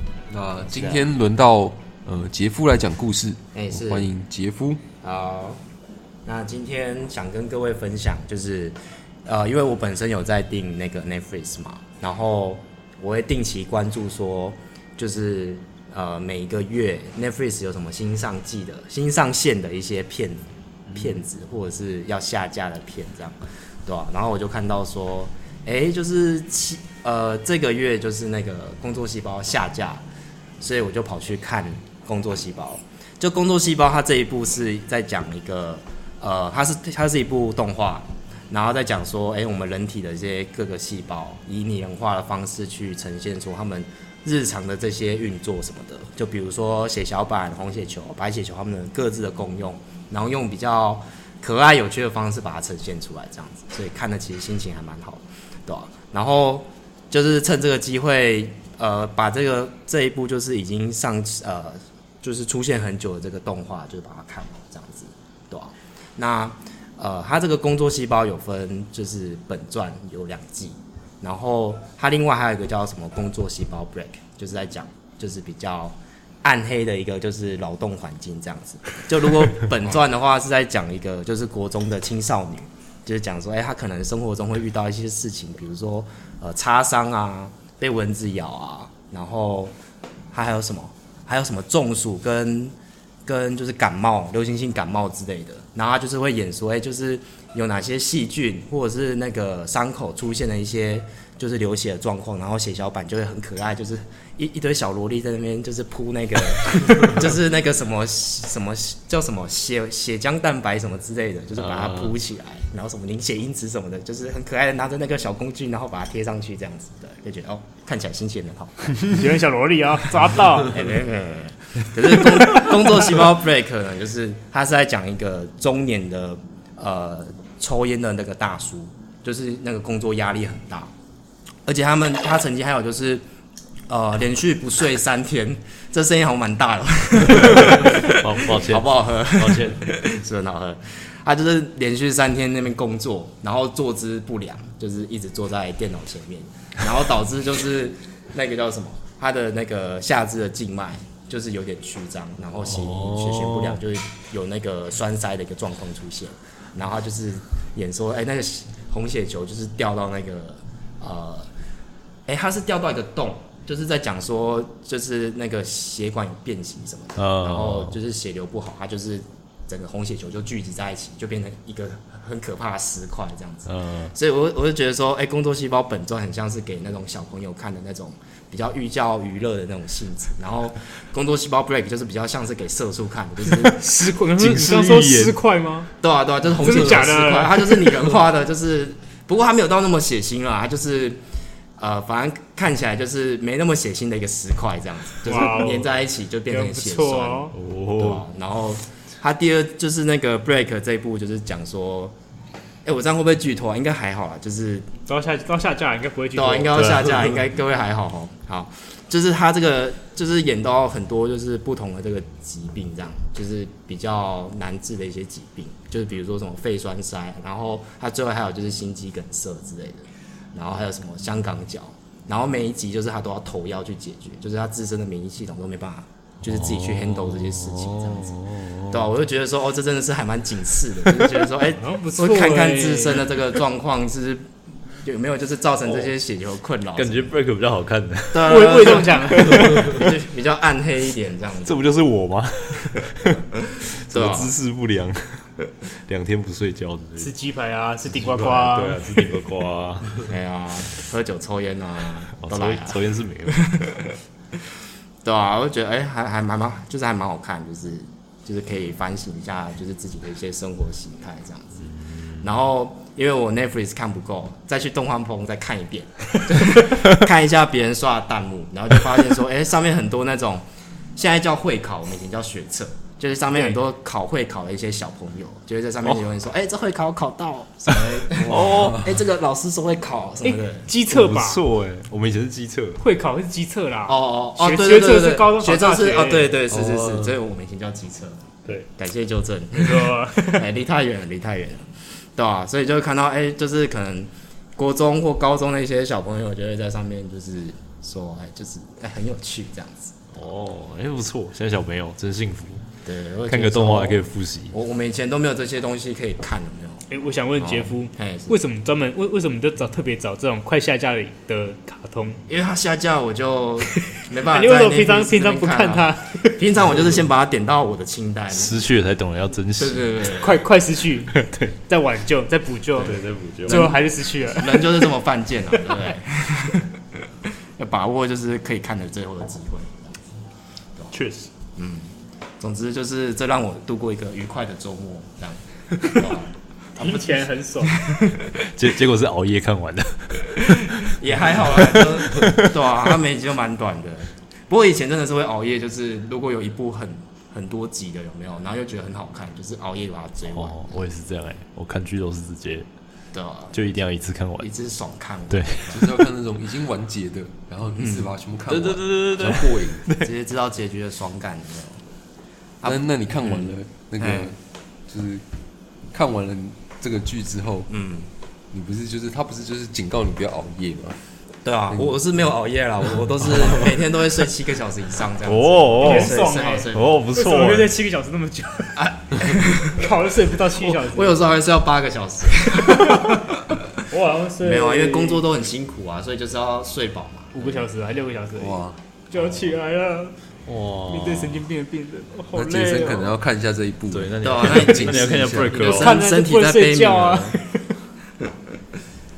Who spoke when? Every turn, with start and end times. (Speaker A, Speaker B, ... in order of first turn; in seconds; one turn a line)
Speaker A: 0.3-4.8
Speaker B: 0.7-1.1
Speaker B: 3.5-4.1
Speaker B: 5.0-5.6
Speaker B: 6.2-30.0
Speaker B: 30.6-89.7
Speaker B: 90.3-92.8
Speaker B: 93.3-119.1
Speaker C: 111.7-112.1
Speaker D: 119.0-120.8
Speaker B: 120.7-130.9
Speaker B: 131.7-133.2
Speaker B: 133.9-161.5
Speaker C: 137.3-139.8
Speaker C: 152.7-153.8
Speaker B: 162.3-183.8
Speaker C: 167.2-168.0
Speaker C: 173.7-174.1
Speaker D: 183.6-185.9
Speaker C: 183.8-185.4
Speaker B: 186.0-191.2
Speaker D: 186.6-188.2
Speaker B: 191.8-202.1
Speaker D: 195.2-195.9
Speaker D: 196.5-197.6
Speaker C: 197.5-198.2
Speaker B: 202.8-204.9
Speaker D: 205.1-206.7
Speaker B: 206.3-228.4
Speaker C: 206.7-207.3
Speaker C: 226.4-229.1
Speaker B: 228.9-237.4
Speaker D: 231.7-233.3
Speaker C: 235.8-236.1
Speaker C: 237.0-240.1
Speaker B: 238.3-241.8
Speaker D: 238.5-239.8
Speaker C: 241.7-247.3
Speaker B: 244.1-244.5
Speaker D: 247.2-249.1
Speaker C: 248.1-250.2
Speaker B: 250.3-254.2
Speaker C: 252.4-253.7
Speaker B: 255.2-270.6
Speaker B: 271.2-280.9
Speaker C: 278.4-279.1
Speaker A: 278.5-279.0
Speaker D: 280.4-281.6
Speaker C: 281.1-283.0
Speaker D: 283.0-286.6
Speaker B: 284.1-300.4
Speaker A: 286.8-287.2
Speaker D: 289.7-290.7
Speaker C: 300.3-302.8
Speaker B: 303.1-307.0
Speaker C: 303.5-304.7
Speaker D: 307.1-312.4
Speaker B: 307.6-308.6
Speaker B: 312.5-318.8
Speaker D: 313.9-316.6
Speaker C: 318.5-320.2
Speaker B: 319.8-320.6
Speaker D: 320.3-325.1
Speaker C: 323.0-323.9
Speaker B: 323.0-326.9
Speaker D: 325.7-326.1
Speaker B: 327.8-330.2
Speaker C: 331.1-331.5
Speaker B: 331.8-337.2
Speaker D: 337.0-338.1
Speaker B: 337.9-338.4
Speaker C: 338.5-342.9
Speaker B: 340.6-351.0
Speaker C: 350.5-352.9
Speaker B: 353.3-353.8
Speaker C: 353.7-354.7
Speaker B: 354.6-356.1
Speaker C: 355.5-356.1
Speaker A: 355.9-360.1
Speaker B: 358.0-358.3
Speaker C: 358.7-360.3
Speaker B: 360.2-362.0
Speaker B: 362.8-364.5
Speaker A: 362.9-365.4
Speaker A: 366.1-367.9
Speaker B: 367.9-368.3
Speaker A: 368.7-371.2
Speaker B: 371.6-377.2
Speaker A: 371.9-372.2
Speaker C: 375.4-376.4
Speaker D: 376.0-379.1
Speaker C: 376.9-377.9
Speaker B: 379.0-380.1
Speaker D: 379.8-381.4
Speaker B: 380.8-383.8
Speaker D: 384.1-385.4
Speaker B: 384.6-387.9
Speaker D: 387.5-390.4
Speaker A: 388.6-389.0
Speaker C: 390.7-391.6
Speaker D: 391.1-393.3
Speaker A: 392.5-395.9
Speaker C: 394.1-396.2
Speaker B: 394.4-397.6
Speaker D: 395.9-397.9